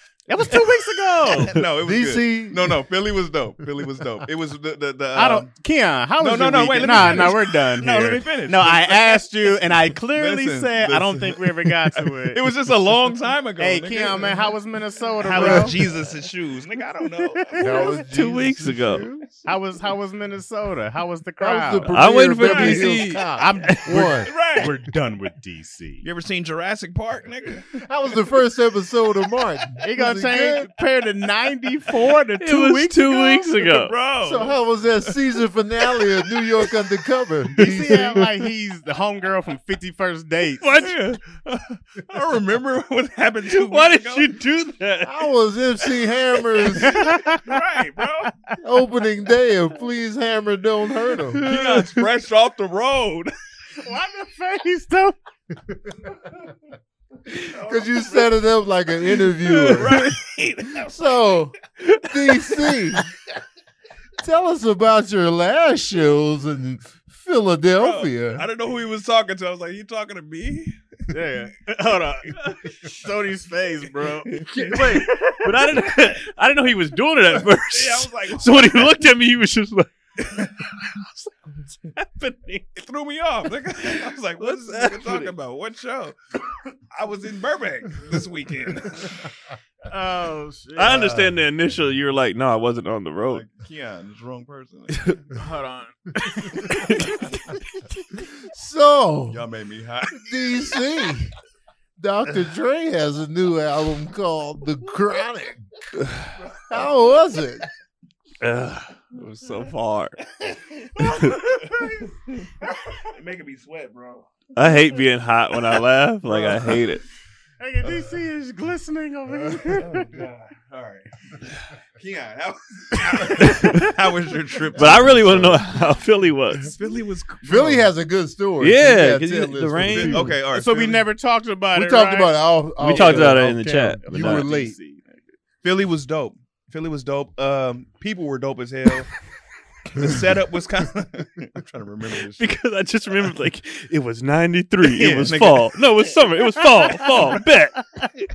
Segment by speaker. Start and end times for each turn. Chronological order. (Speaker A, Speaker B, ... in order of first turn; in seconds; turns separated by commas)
Speaker A: 0.3-1.6, Speaker B: 1.2-5.5, Speaker C: 1.8-2.8, Speaker A: 5.2-12.4, Speaker B: 6.2-9.2, Speaker C: 6.9-7.3, Speaker B: 10.1-14.5, Speaker A: 13.6-15.8, Speaker B: 15.2-17.9, Speaker C: 15.4-15.7, Speaker A: 17.2-17.9, Speaker C: 17.6-19.4, Speaker D: 17.9-19.1, Speaker A: 19.4-26.1, Speaker C: 21.4-24.3, Speaker D: 21.9-24.1, Speaker B: 22.4-22.9, Speaker B: 24.2-24.7, Speaker B: 26.0-27.8, Speaker C: 27.7-30.8, Speaker A: 29.8-33.5, Speaker D: 32.4-33.9, Speaker B: 33.6-35.1, Speaker C: 34.2-38.2, Speaker A: 37.6-40.8, Speaker D: 40.6-41.8, Speaker B: 42.0-44.4, Speaker D: 43.5-45.3, Speaker C: 45.0-47.1, Speaker A: 46.7-47.6, Speaker B: 46.9-48.4, Speaker C: 48.6-51.4, Speaker D: 51.3-52.0, Speaker B: 51.4-53.3, Speaker A: 53.8-55.2, Speaker C: 55.5-56.5, Speaker B: 57.3-58.3, Speaker C: 57.4-60.1, Speaker B: 59.5-61.1, Speaker C: 60.7-63.1, Speaker C: 64.2-68.5, Speaker B: 67.8-70.8, Speaker A: 71.1-74.4, Speaker B: 74.2-75.4, Speaker D: 74.7-81.3, Speaker B: 77.7-79.0, Speaker D: 81.8-82.7, Speaker B: 82.8-86.2, Speaker D: 83.5-85.3, Speaker B: 86.9-89.2, Speaker A: 89.9-91.1, Speaker D: 90.8-93.4, Speaker C: 90.8-91.4, Speaker B: 93.3-95.1, Speaker D: 94.9-95.2, Speaker A: 95.3-97.1, Speaker D: 96.7-97.2, Speaker B: 96.8-97.2, Speaker C: 98.4-99.4, Speaker B: 99.3-100.3, Speaker C: 100.1-101.3, Speaker C: 102.0-105.8, Speaker B: 106.5-106.9, Speaker C: 106.7-107.7, Speaker D: 108.4-110.2, Speaker B: 110.4-112.5, Speaker B: 113.0-114.3, Speaker D: 114.5-117.0, Speaker B: 116.3-116.8, Speaker A: 117.6-120.1, Speaker B: 117.8-118.1, Speaker B: 119.7-125.6, Speaker D: 123.4-123.9, Speaker C: 124.8-125.6, Speaker D: 124.8-126.7, Speaker B: 126.6-127.9, Speaker C: 127.4-130.4, Speaker D: 128.6-130.3, Speaker B: 129.9-131.1, Speaker A: 130.5-133.4, Speaker C: 131.7-134.8, Speaker D: 132.8-134.5, Speaker A: 134.1-135.1, Speaker B: 135.6-139.1, Speaker B: 139.9-142.5, Speaker D: 142.4-147.8, Speaker B: 144.9-145.8, Speaker B: 146.8-147.4